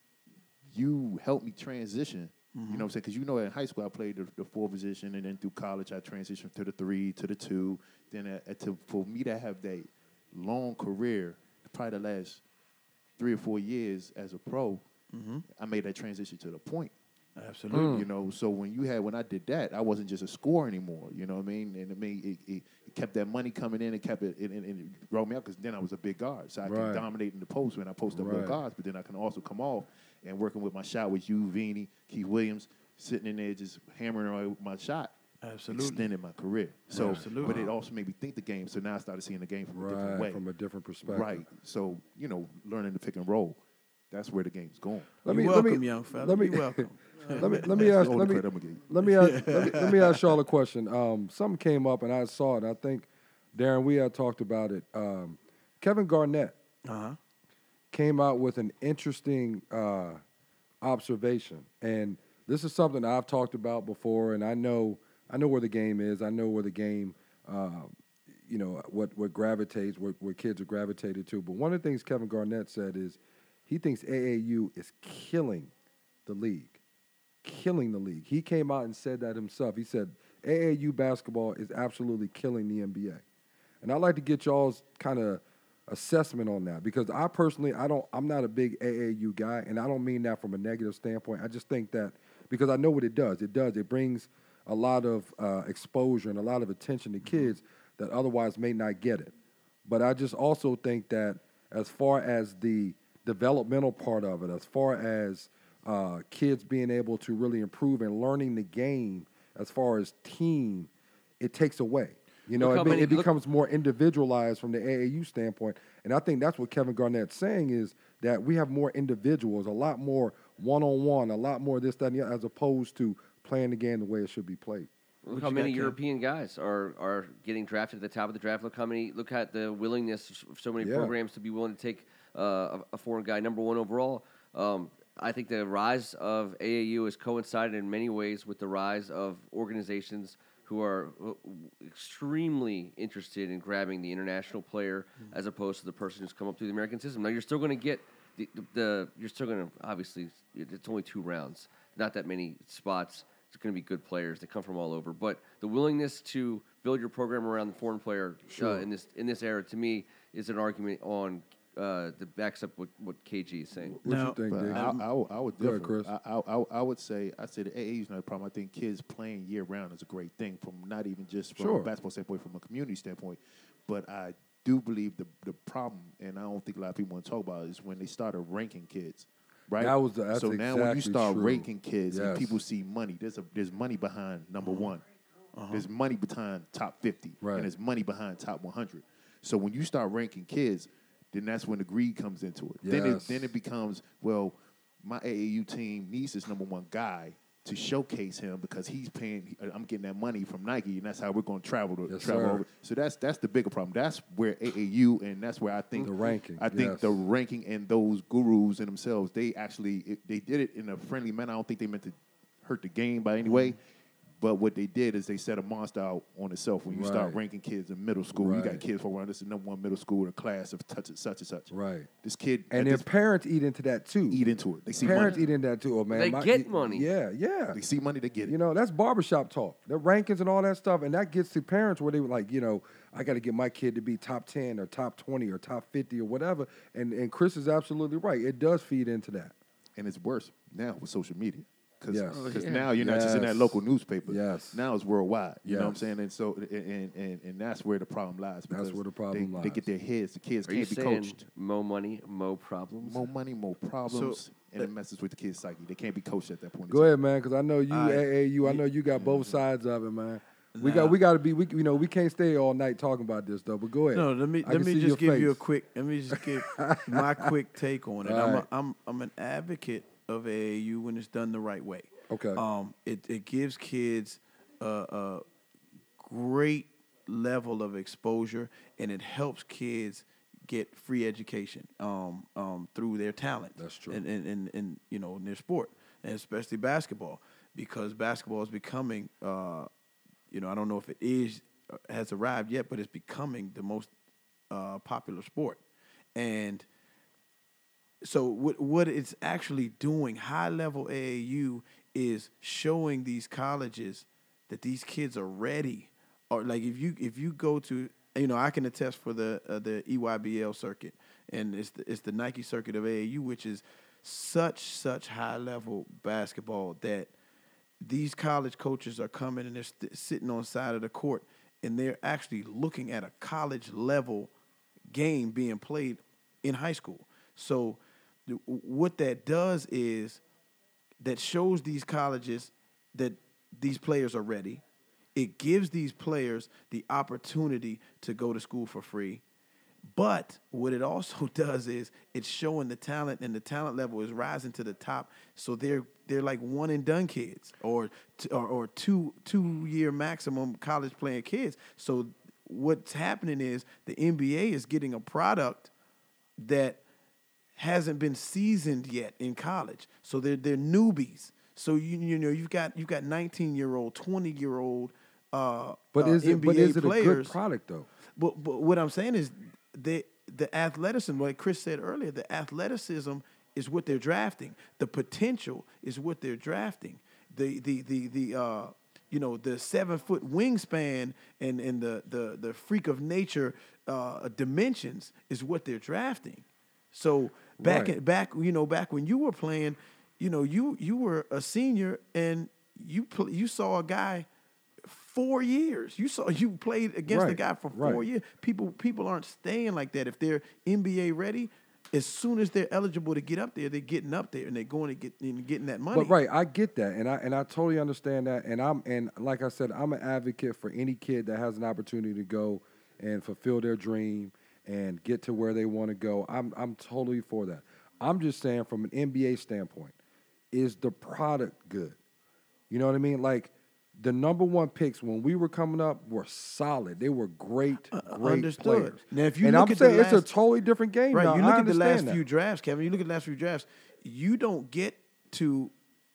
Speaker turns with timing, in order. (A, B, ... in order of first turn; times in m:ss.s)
0:00.7-0:12.4 A
0:02.6-0:02.9 B
0:13.2-0:14.8 A
0:15.1-0:15.4 B
0:15.5-0:16.9 A
0:17.4-0:18.0 B
0:17.7-0:18.1 C
0:17.8-0:35.1 A
0:26.6-0:27.1 C
0:28.1-0:28.6 C
0:35.4-0:36.1 B
0:35.7-0:40.4 A
0:36.9-0:37.7 C
0:36.9-0:37.7 B
0:39.7-0:41.5 C
0:41.1-0:43.6 A
0:44.1-0:45.2 A
0:45.2-0:56.6 C
0:45.3-0:47.9 B
0:47.3-0:49.9 A
0:49.0-0:50.2 B
0:56.9-0:57.2 B
0:57.9-1:00.2 C
1:00.8-1:07.9 C
1:08.4-1:15.7 C
1:16.3-1:16.8 C
1:17.4-1:23.2 C
1:23.8-1:39.3 C
1:39.8-2:04.9 C
1:52.6-1:53.3 D
2:05.2-2:44.0 D
2:05.3-2:06.0 B
2:10.8-2:11.1 C
2:38.5-2:38.9 C
2:43.9-2:44.9 C
2:44.0-2:45.0 B
2:44.5-3:05.0 A
2:45.6-2:46.1 C
2:51.6-2:51.9 C
2:59.8-3:02.6 C
3:04.6-3:04.9 B
3:05.5-3:05.9 B
3:05.7-3:33.8 A
3:07.4-3:07.7 C
3:12.8-3:13.6 C
3:22.1-3:22.6 C
3:26.0-3:27.2 C
3:33.4-3:33.8 B
3:34.4-3:41.7 A
3:36.9-3:37.4 C
3:38.3-3:38.8 C
3:41.7-3:42.1 C
3:42.2-3:43.1 A
3:42.7-3:44.4 C
3:44.3-3:45.4 A
3:45.0-3:47.8 C
3:45.0-3:45.4 D
3:46.1-3:47.1 D
3:47.7-3:48.6 A
3:48.4-3:59.6 C
4:00.0-4:11.4 A
4:02.1-4:04.9 C
4:02.3-4:02.9 D
4:05.6-4:06.1 C
4:08.7-4:09.9 C
4:10.7-4:13.3 D
4:13.0-4:17.1 A
4:14.1-4:14.9 B
4:16.9-4:25.6 C
4:17.9-4:18.8 B
4:19.1-4:19.6 A
4:20.8-4:21.2 B
4:24.1-4:35.4 B
4:26.3-4:27.5 C
4:28.2-4:28.7 C
4:32.3-4:32.6 C
4:36.2-4:49.9 B
4:43.8-4:44.2 C
4:50.5-4:54.1 B
4:54.7-4:55.8 B
4:56.4-4:56.9 B
4:58.2-5:17.3 B
5:18.0-5:24.5 B
5:25.1-5:30.4 B
5:31.2-5:34.8 B
5:35.4-5:39.4 B
5:40.1-5:55.9 B
5:56.6-5:57.0 B
5:57.8-6:07.6 B
6:06.1-6:08.1 C
6:08.4-6:34.5 B
6:27.8-6:28.2 C
6:35.0-6:46.4 B
6:37.3-6:38.3 C
6:46.1-7:00.1 C
7:00.7-7:02.2 C
7:02.9-7:12.4 C
7:08.1-7:10.5 B
7:11.3-7:15.9 B